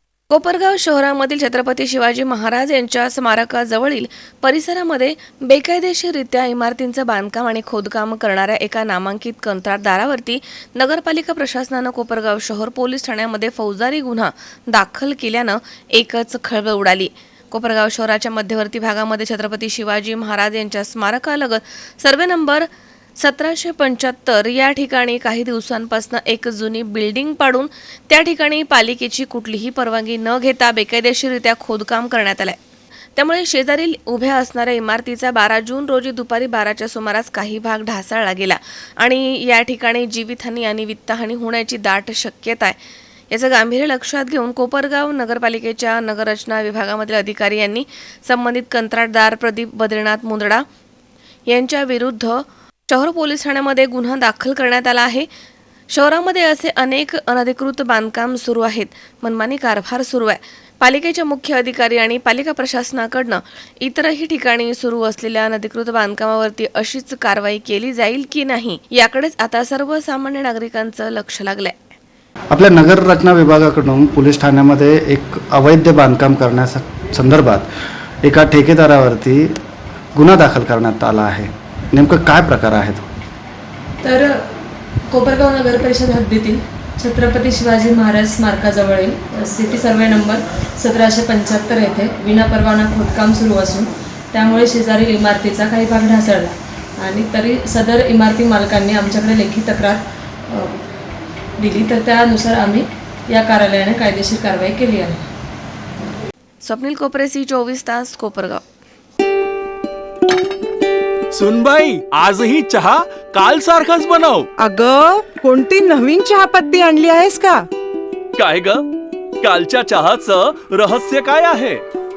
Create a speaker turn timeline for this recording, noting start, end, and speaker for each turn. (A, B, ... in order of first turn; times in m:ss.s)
0:00.3-0:32.6 A
0:33.2-0:42.8 A
0:43.3-0:50.6 A
0:51.5-0:55.3 A
0:55.9-1:11.8 A
1:12.5-1:17.7 B
1:18.2-1:19.6 B
1:20.1-1:23.1 B
1:24.0-1:24.4 C
1:25.1-1:40.8 C
1:41.6-1:45.2 C
1:46.6-1:48.6 A
1:51.3-1:54.5 D
1:54.6-1:57.7 E
1:58.4-1:58.8 D
1:59.4-2:01.8 D